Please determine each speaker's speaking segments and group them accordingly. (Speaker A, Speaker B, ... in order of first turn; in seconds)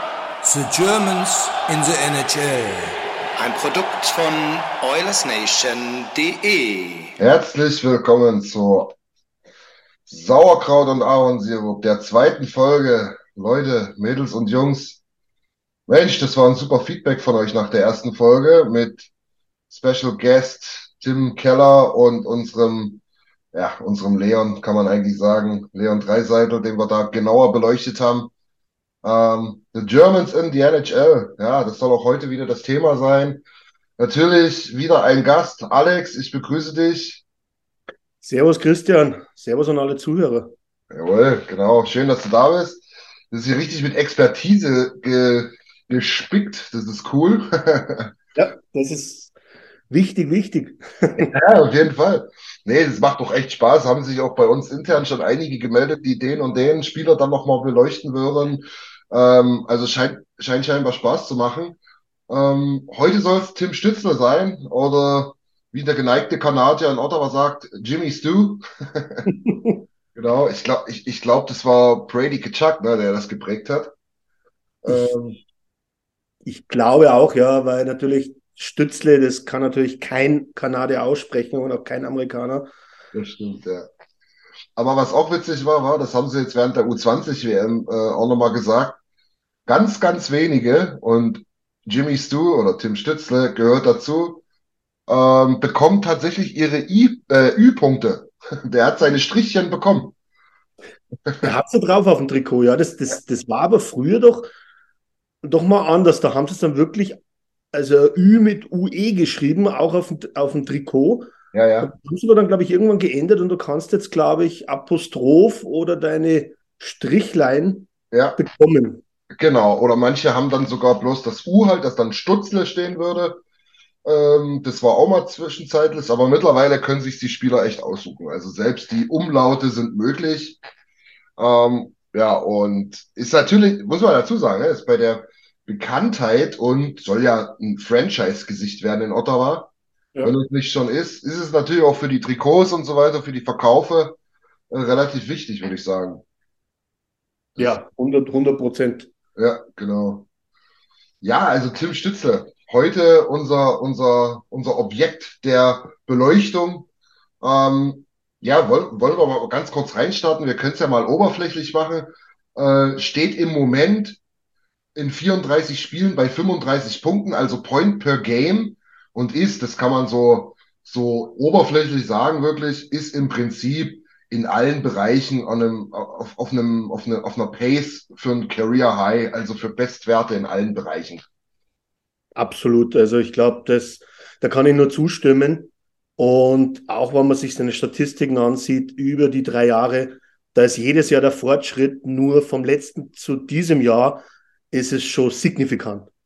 Speaker A: 0.4-3.0
Speaker B: 3.4-7.1
Speaker C: 7.2-8.9, 10.1-15.0, 15.9-19.1, 19.7-23.0, 23.5-28.3, 29.0-33.4, 34.0-37.2, 40.9-48.1, 51.2-61.8, 62.3-69.2, 70.2-73.9, 74.8-75.4, 83.1-83.9, 84.8-89.0, 89.7-94.4, 95.1-100.1, 101.3-101.5, 111.5-111.9, 118.1-118.4, 119.3-123.4, 124.0-130.6, 131.4-139.7, 140.2-144.2, 144.7-146.2, 149.4-150.3, 151.2-156.9, 157.4-164.2, 165.0-181.2
Speaker D: 38.2-40.5, 48.4-49.3, 49.9-51.3, 69.3-69.8, 76.5-82.7, 101.4-104.5, 105.4-107.2, 107.7-119.0, 147.6-149.1, 182.4-196.1